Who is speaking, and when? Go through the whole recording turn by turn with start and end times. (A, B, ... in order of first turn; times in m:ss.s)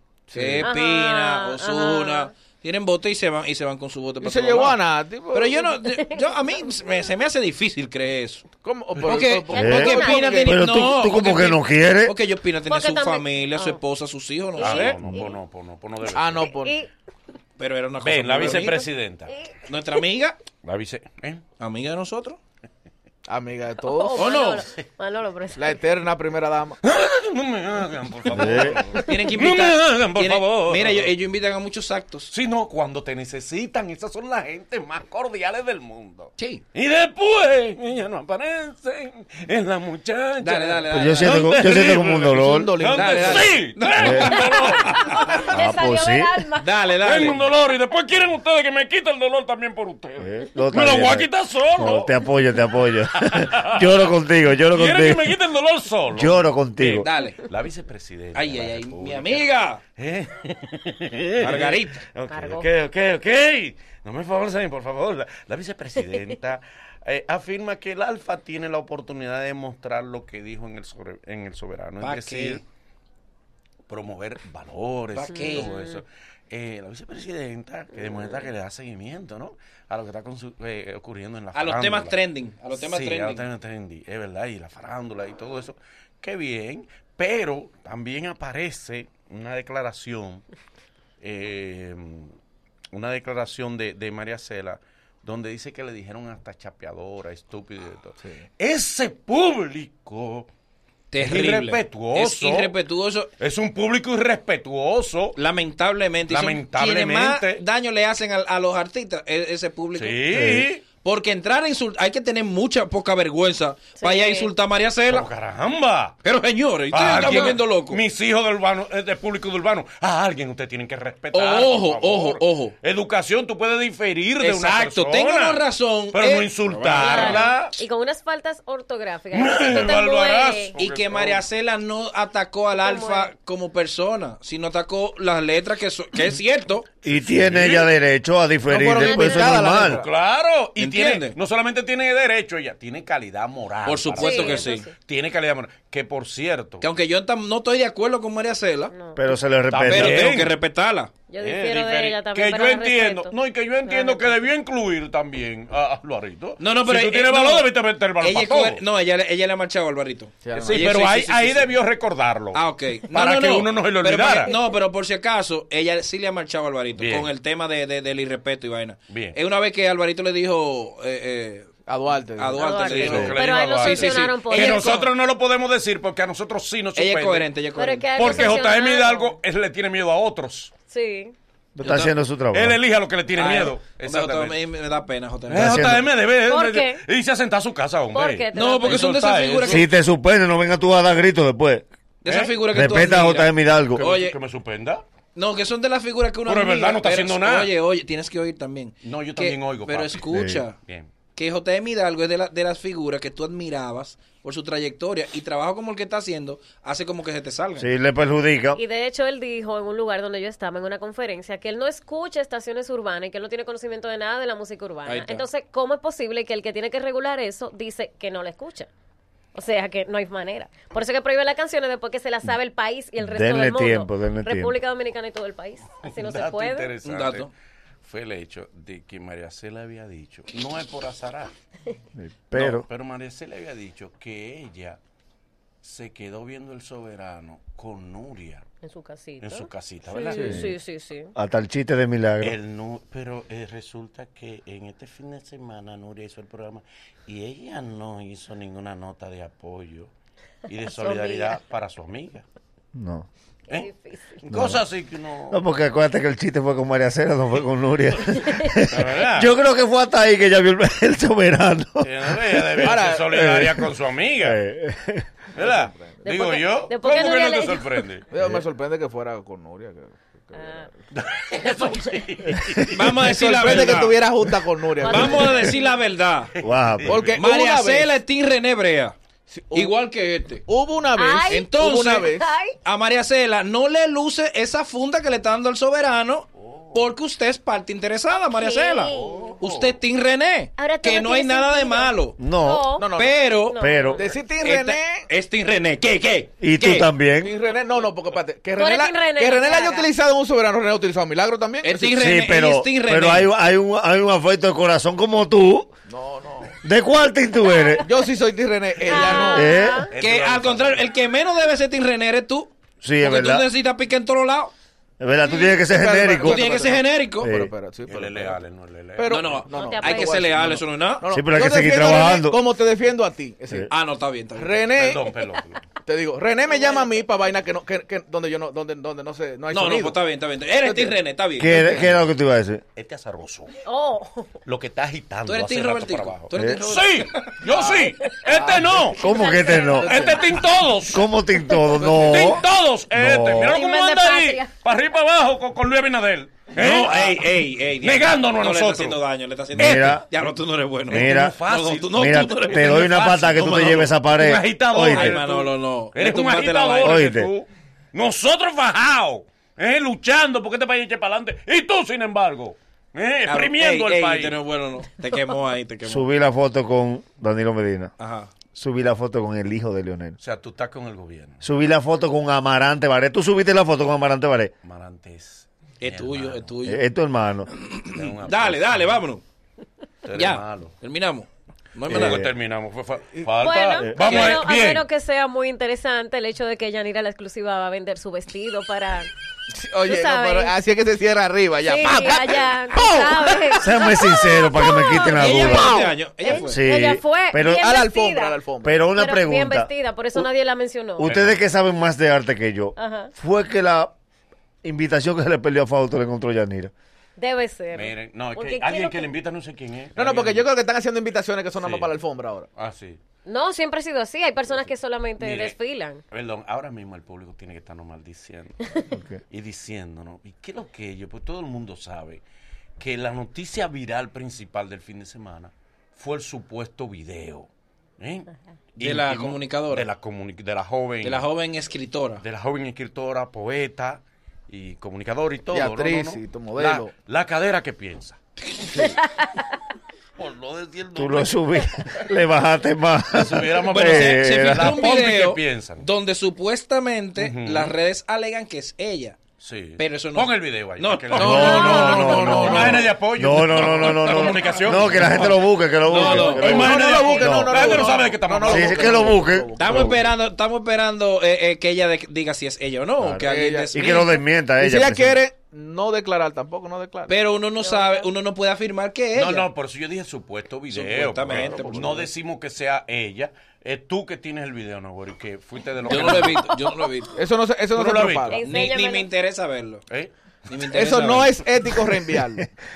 0:00.3-0:00.6 A
0:00.3-0:04.8 B
0:00.6-0:02.3 C
0:04.2-0:05.7 A
0:05.3-0:08.4 B
0:05.7-0:06.8 C
0:08.6-0:10.5 A
0:09.0-0:14.9 B
0:09.5-0:10.6 C
0:09.6-0:12.1 D
0:12.6-0:13.8 C
0:14.6-0:15.4 C
0:14.6-0:16.5 E
0:16.1-0:16.8 A
0:16.3-0:16.9 C
0:17.6-0:18.8 B
0:18.0-0:19.3 E
0:18.5-0:20.0 C
0:19.6-0:20.4 B
0:20.6-0:21.4 E
0:21.6-0:22.4 B
0:23.2-0:24.3 A
0:23.8-0:25.8 C
0:24.2-0:24.7 B
0:25.5-0:26.8 A
0:26.8-0:31.1 E
0:28.3-0:28.8 D
0:29.0-0:32.3 B
0:32.3-0:45.4 E
0:36.4-0:36.6 B
0:40.4-0:41.6 B
0:40.9-0:42.7 D
0:42.3-0:43.6 A
0:42.9-0:45.4 B
0:44.0-0:44.3 D
0:44.2-0:46.8 C
0:45.5-0:46.4 D
0:46.6-0:47.4 B
0:47.0-0:52.1 E
0:50.2-0:55.4 D
0:52.8-0:54.1 E
0:54.7-0:56.9 E
0:56.1-0:57.1 D
0:56.9-0:57.4 B
0:57.5-0:59.4 E
0:58.3-0:59.8 B
1:00.0-1:12.6 E
1:01.4-1:02.0 B
1:02.3-1:02.7 C
1:12.0-1:12.6 B
1:13.9-1:22.1 E
1:15.1-1:15.7 B
1:15.3-1:16.0 C
1:21.5-1:23.4 B
1:22.7-1:30.4 E
1:31.2-1:32.4 E
1:32.9-1:40.5 E
1:38.2-1:38.5 A
1:41.1-1:43.3 B
1:41.2-1:42.8 E
1:43.4-1:45.4 E
1:45.4-1:50.4 B
1:46.3-1:47.6 E
1:49.9-1:50.8 E
1:50.3-1:50.6 D
1:51.0-1:55.3 B
1:54.0-1:54.5 C
1:55.1-1:56.2 E
1:56.2-1:58.0 B
1:56.9-2:07.8 E
2:01.3-2:02.7 B
2:04.4-2:07.5 B
2:06.9-2:10.8 C
2:09.3-2:11.4 E
2:10.8-2:16.9 B
2:12.7-2:13.3 C
2:17.0-2:17.9 E
2:17.0-2:20.0 D
2:18.7-2:20.1 A
2:19.0-2:19.6 C
2:19.8-2:26.9 E
2:20.8-2:21.4 B
2:23.8-2:24.9 B
2:24.2-2:24.9 C
2:26.8-2:28.9 B
2:28.9-2:29.3 C
2:29.2-2:30.3 D
2:29.7-2:30.6 E
2:29.9-2:31.1 B
2:31.3-2:34.4 C
2:31.4-2:38.8 E
2:36.6-2:41.7 B
2:40.4-2:40.8 A
2:40.5-2:42.6 E
2:42.5-2:51.7 B
2:43.1-2:44.5 E
2:47.0-2:47.3 E
2:49.1-2:49.4 E
2:51.9-2:53.2 A
2:52.4-2:55.1 B
2:52.6-2:55.0 C
2:52.8-2:57.5 E
2:57.0-2:58.3 B
2:57.8-2:59.3 C
2:58.1-3:00.7 E
3:00.9-3:01.3 C
3:01.7-3:02.8 D
3:01.8-3:02.1 B
3:02.5-3:04.6 E
3:03.3-3:05.8 B
3:05.5-3:09.9 E
3:05.5-3:06.0 D
3:06.4-3:07.0 C
3:08.1-3:09.2 C
3:08.5-3:09.9 B
3:09.6-3:11.8 D
3:12.2-3:14.4 B
3:12.2-3:12.7 E
3:12.7-3:14.0 D
3:13.9-3:15.0 E
3:15.3-3:20.8 B
3:16.4-3:17.7 E
3:19.0-3:20.3 E
3:20.3-3:20.6 D
3:20.8-3:21.1 E
3:21.3-3:27.9 B
3:27.8-3:28.8 D
3:28.8-3:38.9 C
3:35.0-3:35.4 B
3:39.5-3:46.9 C
3:43.2-3:44.7 D
3:46.0-3:47.5 E
3:47.0-3:47.5 B
3:48.0-3:51.5 E
3:52.1-3:52.8 D
3:52.5-3:55.0 E
3:55.8-3:58.7 E
3:58.8-4:01.3 C
3:59.4-4:00.6 E
4:00.3-4:00.7 D
4:01.3-4:02.5 D
4:02.4-4:10.1 E
4:10.7-4:12.4 E
4:10.8-4:11.6 C
4:12.9-4:13.3 D
4:13.7-4:14.4 C
4:14.4-4:15.6 E
4:14.5-4:14.8 D
4:15.5-4:23.9 D
4:18.3-4:18.8 C
4:18.9-4:19.5 E
4:22.0-4:24.6 E
4:22.8-4:23.3 A
4:24.4-4:25.3 D
4:25.5-4:26.2 A
4:25.6-4:28.3 E
4:26.2-4:28.0 C
4:28.3-4:31.0 A
4:30.5-4:30.9 C
4:31.1-4:33.8 E
4:31.7-4:32.1 C
4:32.9-4:34.2 B
4:33.2-4:35.7 A
4:35.0-4:35.9 C
4:35.0-4:36.5 B
4:36.5-4:37.4 E
4:36.6-4:37.3 D
4:37.1-4:38.2 A
4:37.4-4:39.2 B
4:39.5-4:42.5 A
4:39.7-4:40.6 B
4:41.1-4:41.6 C
4:41.5-4:42.3 B
4:42.3-4:42.8 C
4:42.8-4:52.4 B
4:46.6-4:47.0 E
4:48.5-4:49.5 C
4:49.1-4:50.0 E
4:50.8-4:53.1 C
4:52.4-4:52.9 D
4:53.0-4:53.4 A
4:53.1-4:53.8 B
4:53.7-4:54.2 C
4:53.8-4:54.2 D
4:54.1-4:55.2 A
4:54.6-4:57.1 B
4:56.6-4:57.5 D
4:57.4-5:02.1 A
4:58.7-5:00.1 C
5:01.8-5:03.5 B
5:02.2-5:05.9 D
5:06.1-5:06.7 A
5:06.8-5:08.0 D
5:07.6-5:08.1 C
5:08.0-5:09.8 A
5:09.0-5:10.1 C
5:09.3-5:10.0 D
5:10.1-5:11.1 E
5:10.2-5:14.7 B
5:13.0-5:13.7 D
5:15.2-5:16.6 D
5:15.4-5:18.6 A
5:16.4-5:17.5 B
5:17.4-5:17.7 D
5:18.1-5:19.7 E
5:19.2-5:23.9 A
5:19.3-5:21.2 B
5:19.7-5:20.5 C
5:21.3-5:22.6 D
5:23.9-5:24.8 B
5:24.6-5:25.3 A
5:24.9-5:25.8 E
5:25.3-5:25.6 C
5:26.0-5:30.2 A
5:26.7-5:27.1 C
5:29.7-5:32.0 B
5:30.8-5:31.1 A
5:31.6-5:32.8 D
5:31.8-5:32.2 E
5:32.9-5:33.8 E
5:33.8-5:34.6 C
5:34.6-5:39.2 E
5:35.4-5:38.0 B
5:36.5-5:36.8 D
5:38.0-5:38.5 C
5:38.5-5:38.9 B
5:39.2-5:40.3 D
5:39.2-5:40.6 C
5:40.0-5:41.2 E
5:41.1-5:43.8 D
5:42.0-5:49.2 E
5:43.7-5:44.7 C
5:46.7-5:54.0 B
5:49.8-5:50.2 D
5:51.1-6:04.6 E
5:51.1-5:51.6 D
5:52.1-5:55.4 D
5:55.1-5:57.2 B
5:57.0-5:57.5 D
6:03.4-6:06.3 B
6:06.0-6:08.1 D
6:08.2-6:08.5 B
6:08.7-6:10.4 D
6:10.4-6:11.6 E
6:11.6-6:14.7 D
6:14.8-6:16.7 E
6:16.0-6:17.0 B
6:16.8-6:17.7 D
6:17.7-6:19.4 B
6:18.1-6:19.2 E
6:20.2-6:20.9 E
6:20.3-6:22.4 B
6:22.0-6:25.0 E
6:22.1-6:22.5 D
6:23.5-6:29.3 C
6:29.7-6:34.2 A
6:30.1-6:30.8 C
6:31.8-6:35.9 C
6:33.8-6:36.1 D
6:35.3-6:36.8 B
6:35.6-6:36.1 A
6:36.4-6:38.6 C
6:36.6-6:37.8 D
6:37.7-6:39.1 A
6:38.8-6:40.5 D
6:39.1-6:41.3 C
6:41.2-6:44.1 D
6:41.2-6:41.6 E
6:43.0-6:43.3 C
6:44.8-6:46.9 D
6:47.4-6:49.3 C
6:47.9-6:50.7 E
6:50.2-6:52.7 A
6:51.8-6:52.1 E
6:52.7-6:53.2 E
6:53.4-6:56.2 C
6:54.7-7:02.4 E
6:59.1-6:59.4 D
7:03.0-7:11.5 E
7:09.0-7:10.1 B
7:11.2-7:12.4 B
7:12.4-7:18.4 E
7:15.7-7:17.1 A
7:19.2-7:19.7 C
7:20.4-7:21.6 E
7:21.1-7:25.0 D
7:23.3-7:26.1 E
7:23.9-7:29.4 B
7:27.4-7:27.9 E
7:29.6-7:35.5 E
7:30.0-7:33.0 B
7:31.3-7:37.9 D
7:31.4-7:33.1 A
7:31.5-7:32.0 C
7:33.7-7:36.8 B
7:36.1-7:39.3 E
7:36.6-7:40.2 A
7:37.8-7:38.1 B
7:38.6-7:40.2 D
7:39.8-7:44.4 B
7:43.2-7:45.4 D
7:43.4-7:44.1 A
7:44.8-7:47.3 A
7:47.3-7:49.7 B
7:47.8-7:48.3 C
7:49.3-7:56.7 E
7:50.9-7:52.2 B
7:51.5-7:52.2 A
7:56.1-7:57.4 B
7:56.9-7:57.4 C
7:57.3-7:58.6 A
7:57.9-7:58.6 E
7:58.5-7:59.3 C
7:58.6-8:00.0 B
8:00.7-8:01.6 B
8:00.9-8:02.7 A